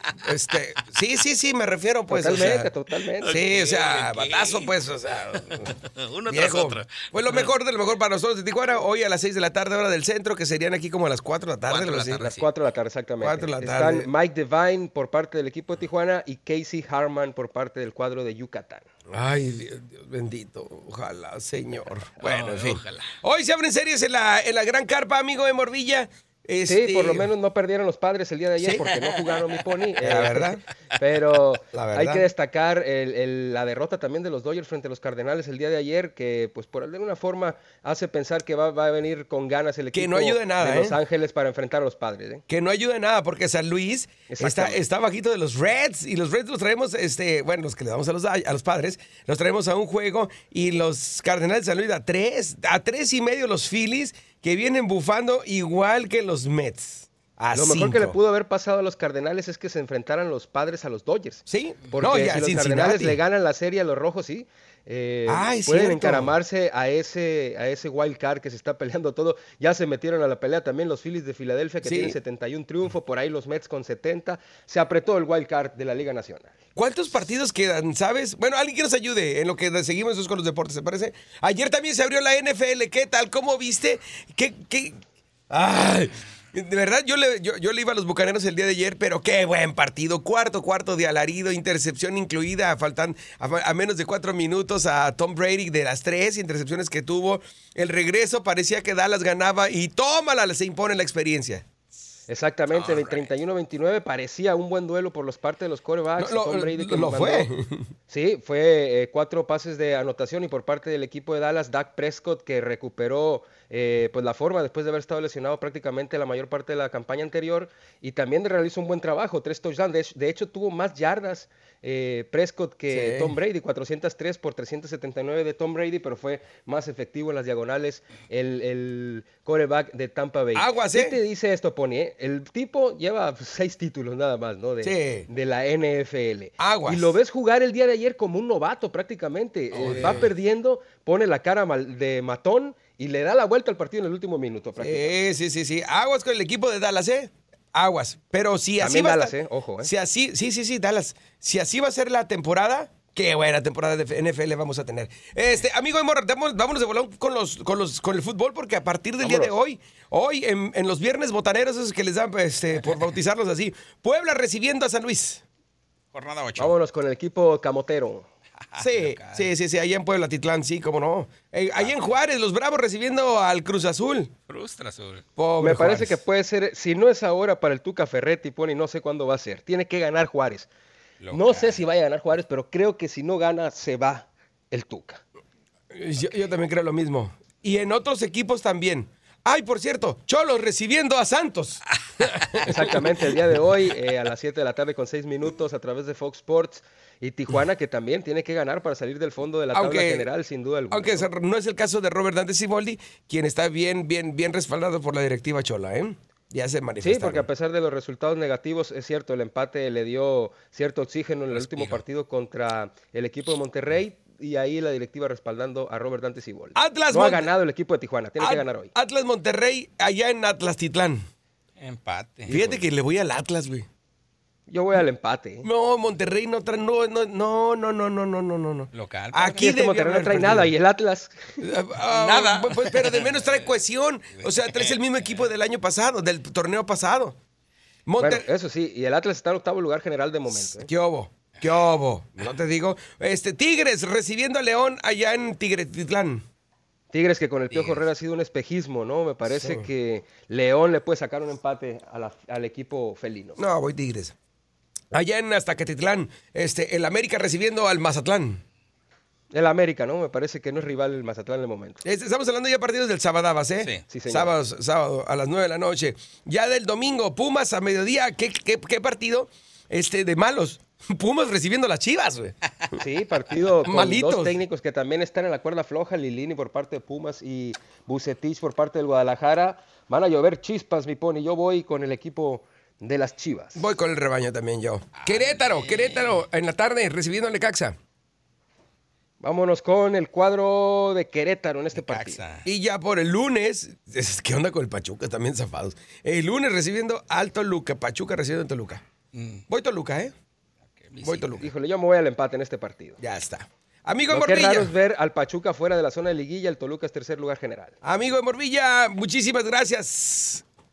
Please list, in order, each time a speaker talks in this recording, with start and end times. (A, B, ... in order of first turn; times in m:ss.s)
0:00.2-0:02.7 A
0:02.1-0:03.4 B
0:03.2-0:04.8 C
0:03.2-0:05.8 A
0:05.5-0:07.5 C
0:06.3-0:12.3 A
0:11.7-0:12.5 C
0:12.2-0:18.9 B
0:13.2-0:14.1 A
0:19.1-0:27.3 A
0:22.2-0:23.2 C
0:26.7-0:42.4 B
0:28.6-0:29.0 A
0:29.0-0:29.8 C
0:30.0-0:30.6 A
0:31.7-0:32.3 A
0:39.9-0:41.0 A
0:42.5-0:58.2 A
0:44.3-0:44.8 B
0:57.5-1:16.6 B
1:01.5-1:03.2 A
1:05.3-1:06.4 A
1:11.8-1:12.2 A
1:16.8-1:25.0 A
1:25.5-1:41.6 A
1:42.3-1:47.5 B
1:42.7-1:43.3 C
1:46.2-1:47.9 A
1:48.1-2:25.2 B
2:02.9-2:03.3 A
2:10.5-2:11.2 A
2:14.8-2:15.3 A
2:16.6-2:17.2 A
2:19.7-2:20.3 A
2:24.8-2:45.4 A
2:28.8-2:29.9 B
2:39.2-2:39.6 B
2:46.1-2:46.8 C
2:46.6-2:48.3 B
2:48.7-2:49.5 C
2:48.8-2:54.3 A
2:54.5-2:55.2 C
2:55.4-2:56.2 A
2:55.6-3:00.7 B
3:01.2-3:01.8 C
3:01.3-3:05.2 B
3:05.9-3:13.5 A
3:12.6-3:21.3 B
3:19.7-3:20.3 A
3:20.9-3:27.5 A
3:27.0-3:38.9 B
3:31.5-3:32.0 C
3:36.8-3:37.5 A
3:38.4-3:41.2 A
3:41.8-3:42.8 C
3:42.5-3:43.9 A
3:44.7-3:45.7 B
3:45.6-3:50.7 A
3:48.9-3:49.7 C
3:49.6-3:51.6 B
3:51.6-3:57.4 A
3:52.1-3:53.5 C
3:54.4-3:55.0 C
3:58.1-3:58.5 A
3:58.2-4:00.9 B
4:00.5-4:06.4 A
4:07.1-4:13.6 B
4:07.7-4:08.0 C
4:09.5-4:09.9 A
4:13.6-4:14.4 A
4:15.1-4:18.6 A
4:19.5-4:22.0 B
4:22.0-4:32.6 A
4:23.8-4:24.0 C
4:24.1-4:24.6 B
4:33.0-4:43.9 B
4:33.9-4:34.6 A
4:43.8-4:48.0 A
4:45.2-4:46.4 C
4:49.4-4:52.4 B
4:51.9-4:52.6 C
4:52.6-4:59.0 A
4:59.3-4:59.6 C
4:59.7-5:00.3 A
5:01.0-5:01.7 C
5:01.2-5:01.7 A
5:01.6-5:03.2 B
5:03.2-5:04.9 A
5:04.3-5:08.0 B
5:08.0-5:10.6 A